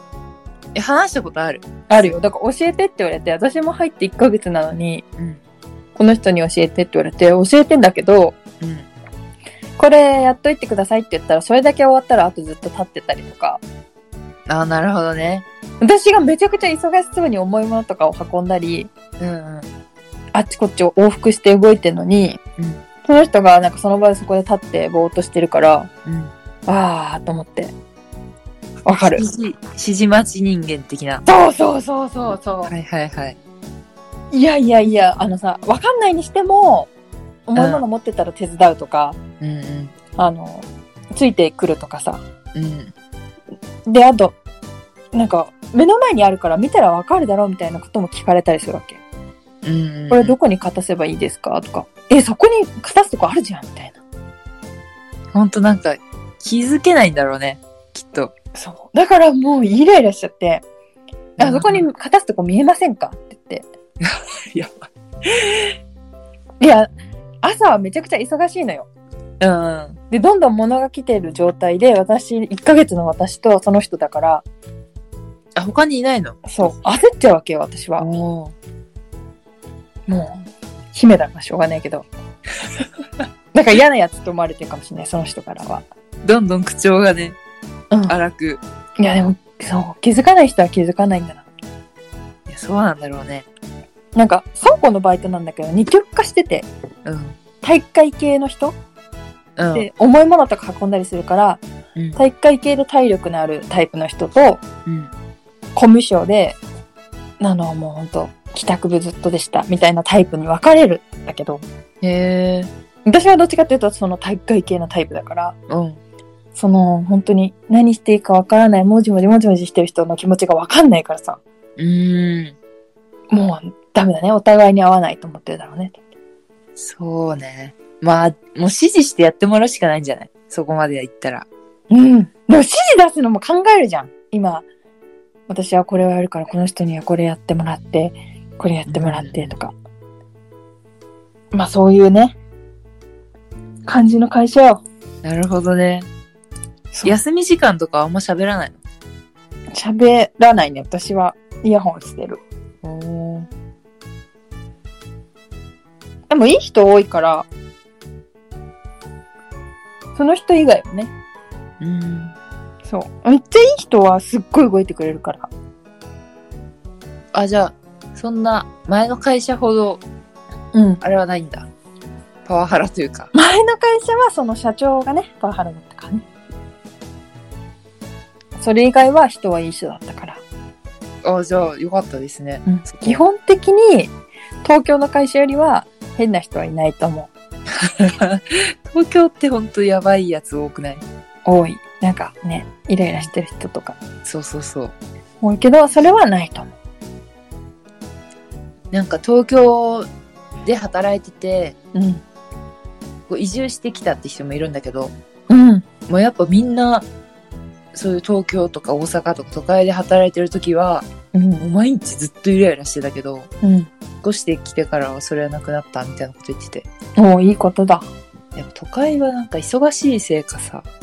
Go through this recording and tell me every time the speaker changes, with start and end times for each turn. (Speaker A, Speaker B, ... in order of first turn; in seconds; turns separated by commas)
Speaker A: 0.7-2.1, Speaker B: 1.9-5.0, Speaker B: 6.0-8.4, Speaker A: 8.6-8.9, Speaker B: 9.8-13.6, Speaker A: 14.5-15.4, Speaker B: 15.8-18.9, Speaker A: 19.2-19.7, Speaker B: 20.3-22.4, Speaker B: 23.0-25.9, Speaker A: 26.1-26.3, Speaker B: 26.7-27.7, Speaker B: 28.8-29.3, Speaker A: 29.1-31.2, Speaker B: 31.2-32.7, Speaker A: 32.7-33.4, Speaker B: 34.3-36.9, Speaker B: 37.5-39.2, Speaker A: 37.5-37.8, Speaker A: 39.4-39.9, Speaker B: 40.1-42.2, Speaker A: 42.5-42.9, Speaker B: 43.9-44.4, Speaker B: 45.1-49.0, Speaker A: 49.6-50.4, Speaker B: 50.1-54.0, Speaker A: 55.3-58.3, Speaker B: 58.5-60.6, Speaker A: 61.4-61.9, Speaker B: 61.4-63.6, Speaker A: 64.0-65.7, Speaker B: 66.6-66.9, Speaker B: 67.4-68.9, Speaker A: 69.4-70.0, Speaker B: 70.1-74.4, Speaker A: 75.5-76.5, Speaker B: 76.4-78.1, Speaker A: 78.0-78.5, Speaker B: 80.1-82.0, Speaker B: 83.5-85.8, Speaker A: 86.2-87.4, Speaker A: 88.1-88.6, Speaker B: 89.0-91.5, Speaker A: 92.5-93.5, Speaker B: 94.1-96.7, Speaker A: 97.0-97.4, Speaker B: 97.6-98.8, Speaker A: 99.6-99.8, Speaker B: 99.7-101.6, Speaker B: 102.2-104.6, Speaker A: 104.9-105.1, Speaker B: 105.7-106.6, Speaker B: 107.4-111.6, Speaker A: 112.0-112.7, Speaker B: 113.0-115.5, Speaker A: 115.7-116.0, Speaker B: 116.5-121.4, Speaker A: 121.8-122.5, Speaker B: 123.3-126.0, Speaker A: 126.8-131.5, Speaker B: 131.9-134.7, Speaker B: 135.5-139.7, Speaker A: 138.9-139.5, Speaker B: 141.5-142.3, Speaker B: 143.8-144.8, Speaker A: 145.2-146.1, Speaker A: 147.0-148.8, Speaker B: 149.7-152.4, Speaker A: 152.8-153.5, Speaker B: 156.3-157.5, Speaker B: 160.2-161.1, Speaker A: 161.8-162.3, Speaker B: 162.8-165.5, Speaker A: 167.3-170.0, Speaker B: 170.7-171.0, Speaker A: 171.0-171.7, Speaker A: 172.4-173.3, Speaker B: 173.3-176.2, Speaker B: 178.6-180.4, Speaker A: 181.2-183.2, Speaker B: 182.7-184.1, Speaker B: 184.6-187.3, Speaker A: 187.8-191.0, Speaker B: 191.4-194.0, Speaker A: 194.2-194.9, Speaker B: 195.4-196.7, Speaker A: 198.9-200.1, Speaker A: 200.7-201.8, Speaker B: 201.9-202.2, Speaker A: 203.3-205.1, Speaker B: 205.5-205.8, Speaker A: 206.1-207.1, Speaker A: 207.9-211.1, Speaker B: 211.3-211.7, Speaker A: 211.6-213.5, Speaker B: 213.6-213.9, Speaker A: 214.2-216.9, Speaker B: 217.2-218.1, Speaker A: 218.5-220.8